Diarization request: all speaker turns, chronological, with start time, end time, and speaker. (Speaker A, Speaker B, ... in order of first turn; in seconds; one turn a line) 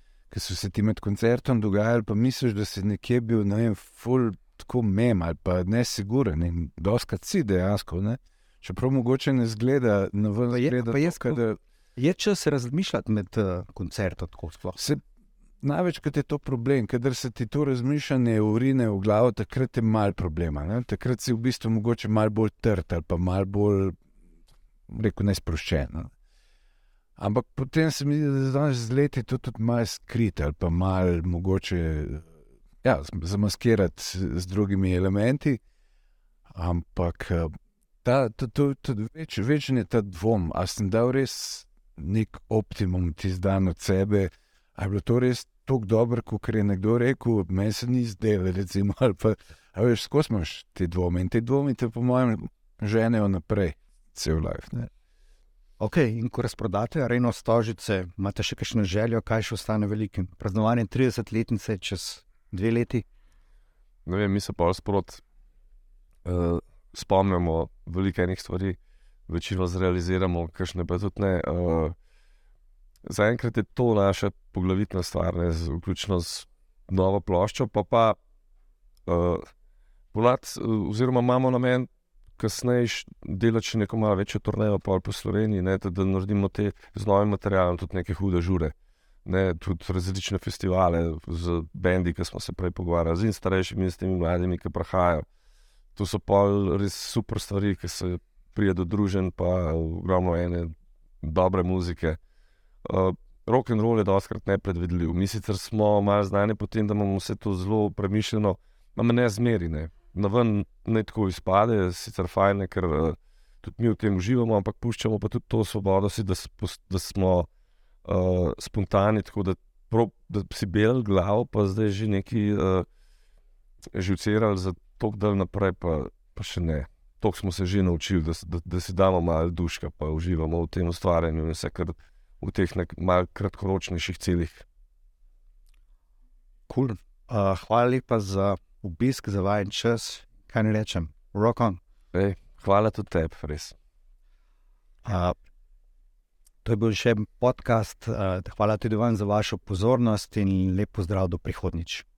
Speaker A: 0.3-11.6
Speaker B: 10.5-11.4
Speaker B: 12.0-14.8
Speaker A: 14.8-15.0
Speaker A: 15.6-23.9
Speaker A: 24.9-26.1
Speaker A: 27.2-32.3
Speaker A: 32.8-35.6
Speaker A: 36.5-54.9
Speaker B: 55.8-63.0
Speaker C: 64.0-65.2
Speaker C: 66.2-68.8
Speaker C: 69.3-71.9
Speaker C: 73.0-78.2
Speaker C: 79.1-79.5
Speaker C: 80.1-88.7
Speaker C: 89.2-95.2
Speaker C: 96.0-102.2
Speaker C: 102.8-117.5
Speaker C: 118.0-122.8
Speaker C: 123.9-134.6
Speaker B: 136.7-141.8
Speaker C: 142.1-143.7
Speaker B: 145.0-145.4
Speaker B: 146.6-152.0